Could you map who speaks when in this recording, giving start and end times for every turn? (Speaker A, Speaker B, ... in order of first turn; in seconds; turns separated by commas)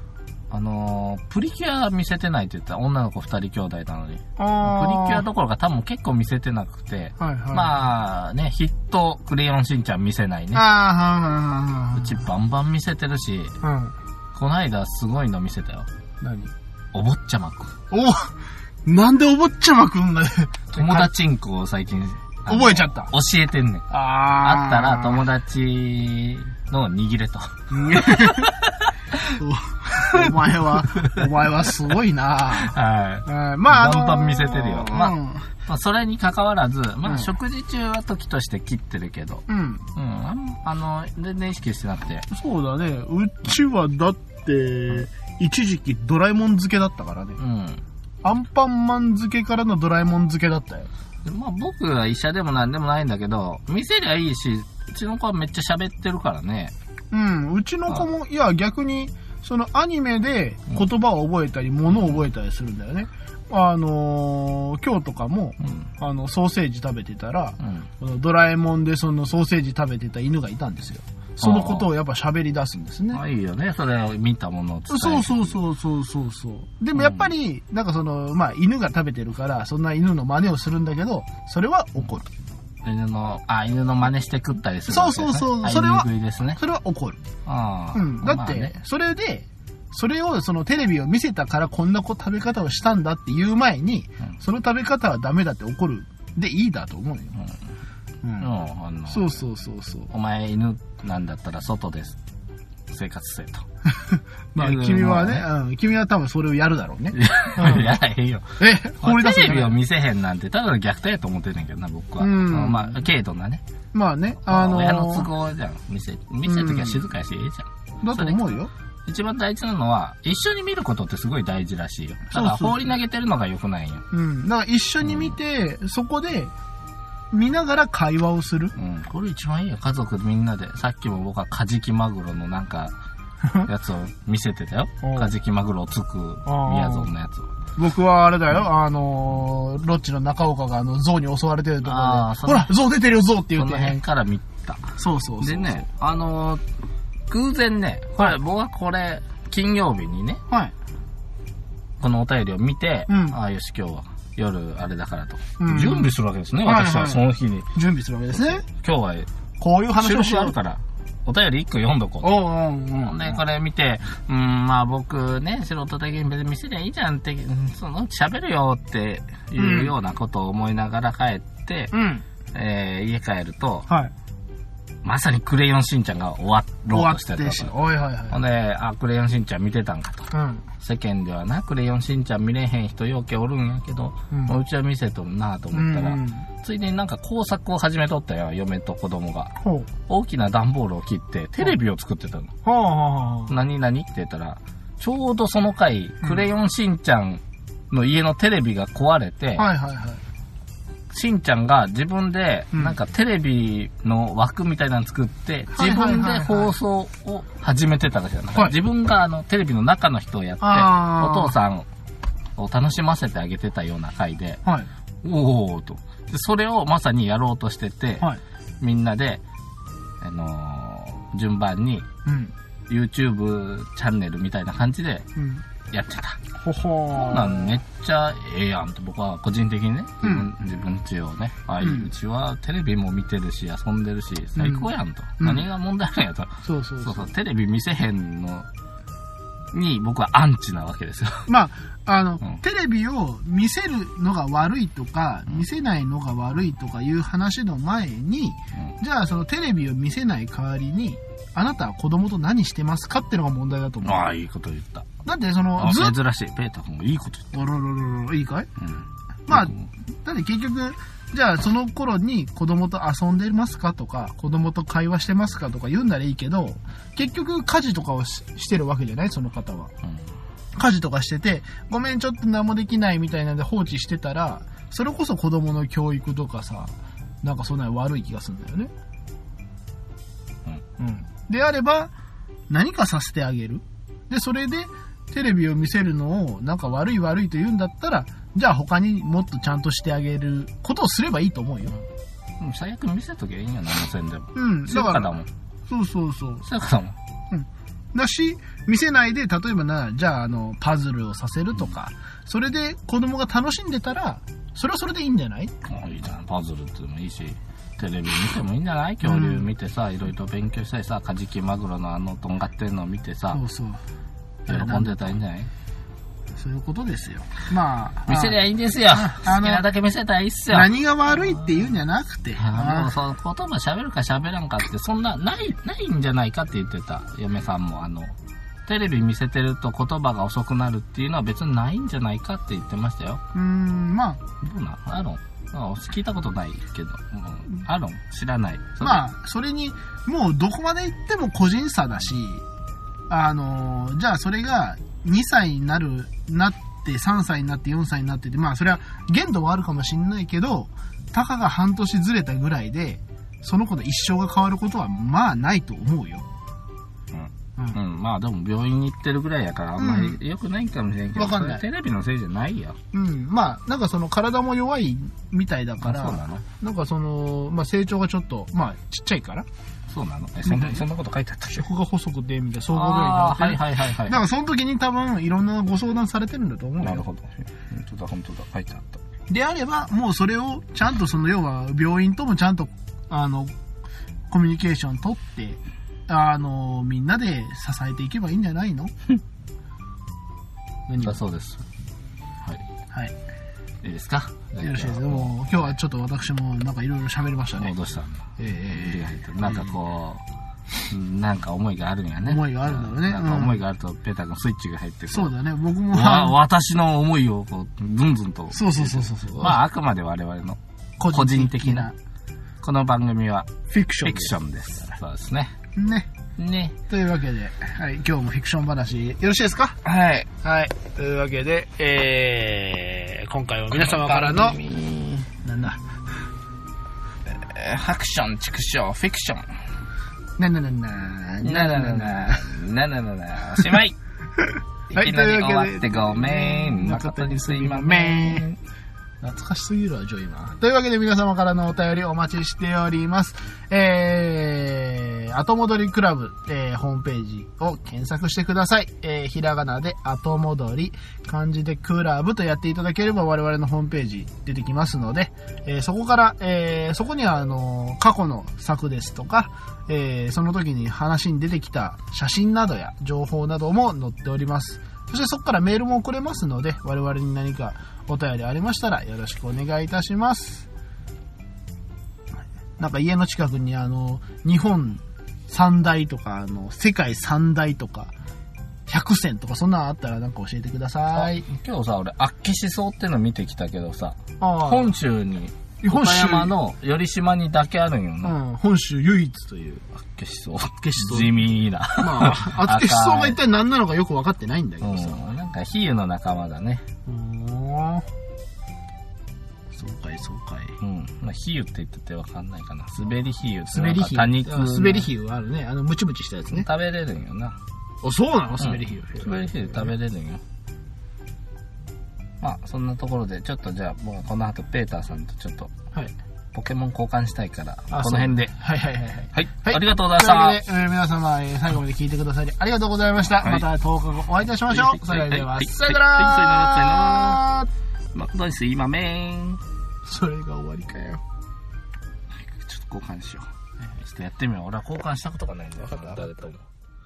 Speaker A: 0.5-10.6, Speaker B: 4.4-5.2, Speaker B: 7.2-7.7, Speaker B: 10.5-12.2, Speaker A: 11.9-13.5, Speaker B: 13.6-13.9, Speaker A: 14.3-15.9, Speaker B: 16.2-16.5, Speaker A: 16.9-17.7, Speaker B: 17.9-21.1, Speaker A: 20.7-29.4, Speaker B: 22.5-23.1, Speaker B: 23.9-25.2, Speaker B: 27.7-28.5, Speaker B: 29.4-32.7, Speaker A: 30.0-31.2, Speaker A: 32.5-42.3, Speaker B: 33.2-35.5, Speaker B: 37.0-37.3, Speaker B: 39.5-39.9, Speaker B: 42.3-47.4, Speaker A: 47.4-47.8, Speaker B: 48.2-50.9, Speaker A: 51.2-56.7, Speaker B: 57.1-73.2, Speaker A: 65.6-65.9, Speaker A: 67.6-67.9, Speaker A: 71.4-71.9, Speaker A: 73.1-75.6, Speaker B: 74.9-82.3, Speaker A: 76.9-77.3, Speaker A: 82.8-86.6, Speaker B: 84.9-87.2, Speaker A: 87.5-88.7, Speaker B: 87.9-97.4, Speaker B: 98.2-98.5, Speaker A: 98.4-99.4, Speaker B: 99.1-100.1, Speaker A: 100.1-102.2, Speaker A: 102.9-103.7, Speaker B: 103.9-108.0, Speaker A: 104.5-105.5, Speaker A: 107.1-113.6, Speaker B: 108.6-109.8, Speaker B: 112.2-113.0, Speaker B: 113.9-115.3, Speaker A: 114.4-124.0, Speaker B: 116.4-117.0, Speaker B: 118.0-118.7, Speaker B: 122.3-122.8, Speaker B: 124.1-126.5, Speaker A: 125.0-125.3, Speaker B: 127.3-128.7, Speaker A: 128.8-132.9, Speaker A: 133.6-137.5, Speaker B: 135.0-135.3, Speaker B: 136.4-137.1, Speaker B: 137.8-144.0, Speaker A: 141.8-142.7, Speaker A: 143.6-146.6, Speaker B: 145.0-145.8, Speaker A: 147.3-150.4, Speaker B: 150.5-150.7, Speaker A: 152.0-157.7, Speaker B: 153.1-153.3, Speaker B: 155.6-157.2, Speaker B: 157.7-158.7, Speaker A: 158.7-159.3, Speaker B: 159.6-160.6, Speaker A: 160.0-162.4, Speaker B: 162.2-163.3, Speaker A: 163.0-171.9, Speaker B: 169.6-169.9, Speaker B: 171.9-172.2, Speaker A: 172.5-173.9, Speaker B: 173.9-174.1, Speaker A: 175.0-177.8, Speaker B: 176.9-178.4, Speaker A: 178.3-189.5, Speaker B: 180.3-180.6, Speaker B: 185.7-186.5, Speaker B: 189.6-189.9, Speaker A: 190.1-192.5, Speaker B: 192.6-193.5, Speaker A: 193.5-199.7, Speaker B: 199.6-200.2, Speaker A: 201.1-211.8, Speaker B: 205.7-206.7, Speaker B: 210.6-211.5, Speaker A: 212.6-214.6, Speaker A: 215.2-218.3, Speaker A: 218.8-219.4, Speaker A: 220.2-222.1, Speaker B: 222.2-222.5, Speaker A: 222.9-225.3, Speaker B: 225.3-225.6, Speaker A: 225.9-226.4, Speaker B: 226.6-227.7, Speaker A: 227.1-238.7, Speaker B: 230.2-230.5, Speaker B: 231.8-232.1, Speaker B: 234.6-234.9, Speaker B: 235.4-235.7, Speaker B: 236.6-237.3, Speaker A: 239.7-241.5, Speaker B: 241.5-254.3, Speaker A: 254.0-255.1, Speaker B: 255.2-256.1, Speaker A: 255.8-257.5, Speaker B: 257.5-258.7, Speaker A: 258.8-259.9, Speaker B: 259.5-269.9, Speaker B: 270.8-278.9, Speaker B: 281.0-282.1, Speaker B: 282.7-291.9, Speaker A: 292.6-295.5, Speaker B: 294.5-295.3, Speaker B: 295.9-296.6, Speaker A: 296.6-297.2, Speaker B: 297.5-305.7, Speaker A: 305.8-313.6, Speaker B: 309.2-309.7, Speaker B: 313.5-314.0, Speaker B: 314.6-315.3, Speaker A: 314.7-315.7, Speaker B: 316.5-319.9, Speaker A: 318.3-320.9, Speaker B: 320.7-323.1, Speaker A: 322.6-328.3, Speaker A: 328.9-333.4, Speaker B: 333.5-334.4, Speaker A: 334.6-339.2, Speaker B: 339.0-342.6, Speaker B: 343.3-356.4, Speaker A: 357.3-363.0, Speaker B: 360.0-360.4, Speaker B: 361.3-361.8, Speaker B: 363.1-369.7, Speaker A: 366.0-366.6, Speaker A: 370.1-371.9, Speaker B: 370.6-371.0, Speaker B: 371.7-377.2, Speaker A: 372.9-374.4, Speaker A: 377.0-379.2, Speaker B: 379.5-383.7, Speaker B: 384.5-389.1, Speaker B: 391.1-391.4, Speaker A: 391.2-391.8, Speaker A: 394.0-395.9, Speaker B: 394.8-397.9, Speaker A: 397.8-400.4, Speaker B: 398.6-399.9, Speaker A: 401.1-405.5, Speaker B: 402.4-403.8, Speaker B: 405.3-406.6, Speaker A: 406.1-410.8, Speaker B: 408.7-409.8, Speaker B: 411.2-412.1, Speaker A: 411.3-412.1, Speaker A: 412.8-415.7, Speaker B: 413.9-414.5, Speaker B: 415.9-416.3, Speaker A: 416.6-417.0, Speaker B: 417.1-420.0, Speaker A: 420.0-420.5, Speaker B: 420.6-424.8, Speaker A: 423.9-425.5, Speaker B: 425.6-426.1, Speaker A: 427.5-429.7, Speaker B: 430.6-432.8, Speaker A: 431.6-434.1, Speaker B: 434.6-438.7, Speaker A: 435.1-438.8, Speaker B: 439.4-470.9, Speaker B: 473.0-478.3, Speaker B: 479.1-481.6, Speaker A: 481.3-488.5, Speaker B: 484.6-485.1, Speaker B: 486.0-486.7, Speaker B: 488.4-490.1, Speaker A: 490.3-493.6, Speaker B: 491.0-491.5, Speaker B: 492.2-495.4, Speaker A: 495.0-497.0, Speaker B: 497.2-498.3, Speaker B: 499.9-501.0, Speaker A: 501.0-505.3, Speaker B: 503.9-506.9, Speaker A: 506.7-507.8, Speaker B: 508.2-510.1, Speaker A: 508.8-510.6, Speaker A: 512.6-515.9, Speaker A: 516.7-518.7, Speaker B: 518.1-527.9, Speaker A: 519.5-520.8, Speaker A: 523.6-523.9, Speaker A: 524.9-527.6, Speaker A: 528.3-529.8, Speaker B: 530.2-531.4, Speaker A: 532.6-536.8, Speaker B: 536.0-536.5